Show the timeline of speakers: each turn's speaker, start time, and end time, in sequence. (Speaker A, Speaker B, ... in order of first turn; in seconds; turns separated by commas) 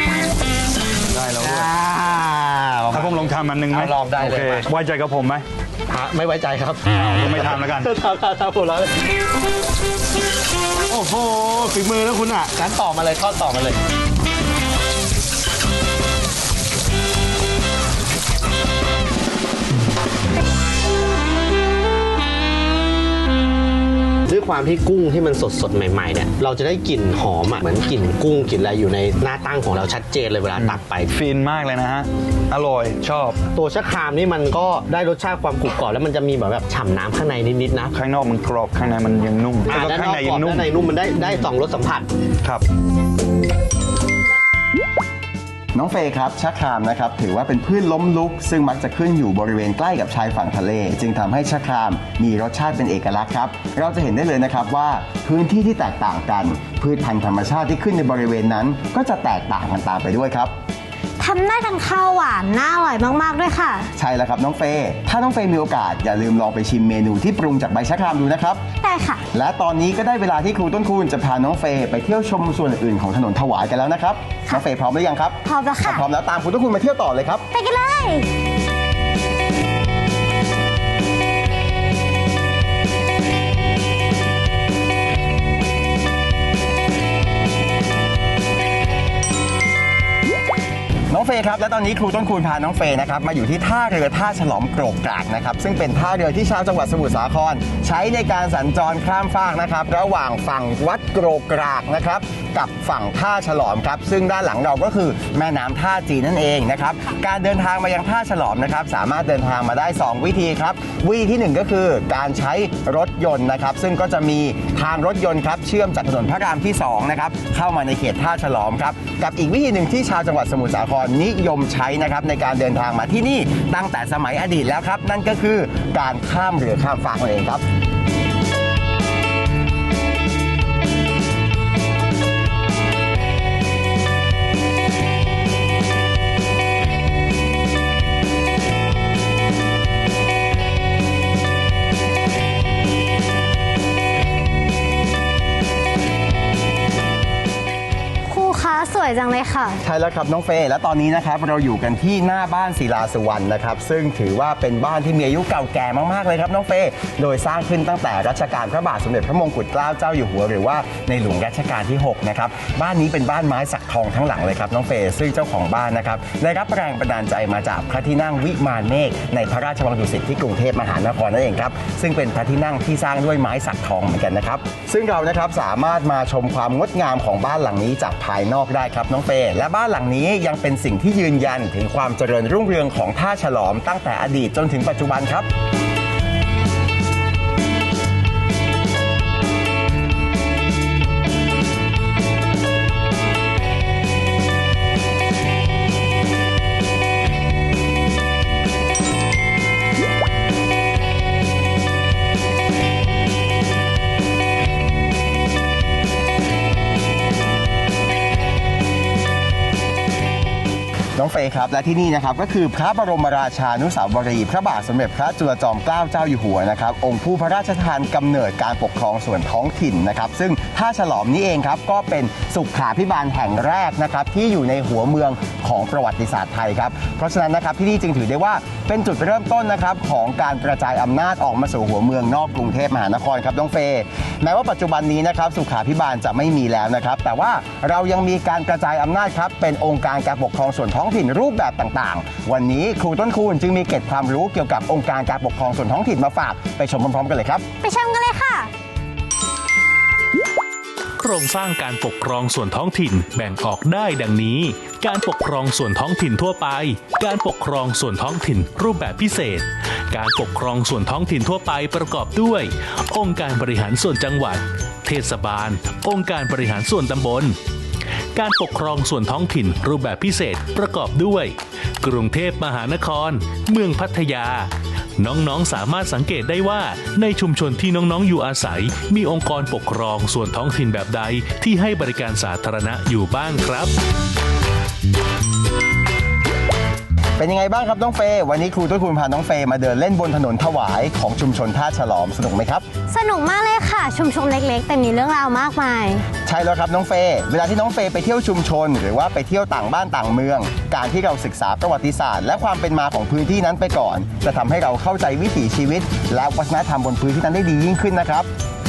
Speaker A: 1.1-1.7, Speaker B: 1.4-4.7, Speaker A: 2.9-5.4, Speaker B: 5.9-9.0, Speaker A: 7.2-7.9, Speaker B: 10.9-13.8, Speaker B: 24.3-31.1, Speaker A: 30.6-33.4, Speaker B: 33.5-37.9, Speaker A: 37.9-40.7, Speaker B: 39.7-42.1, Speaker C: 45.7-60.5, Speaker D: 61.2-63.9, Speaker C: 64.0-68.6, Speaker D: 68.8-69.2, Speaker C: 69.3-77.5, Speaker D: 75.5-76.0, Speaker D: 77.5-78.3, Speaker C: 91.1-127.6, Speaker D: 148.3-149.8, Speaker C: 149.8-185.5, Speaker C: 211.2-247.7, Speaker D: 247.8-248.7, Speaker E: 251.2-267.6, Speaker E: 268.4-283.9, Speaker C: 287.4-292.9, Speaker D: 293.1-296.3, Speaker C: 296.5-308.5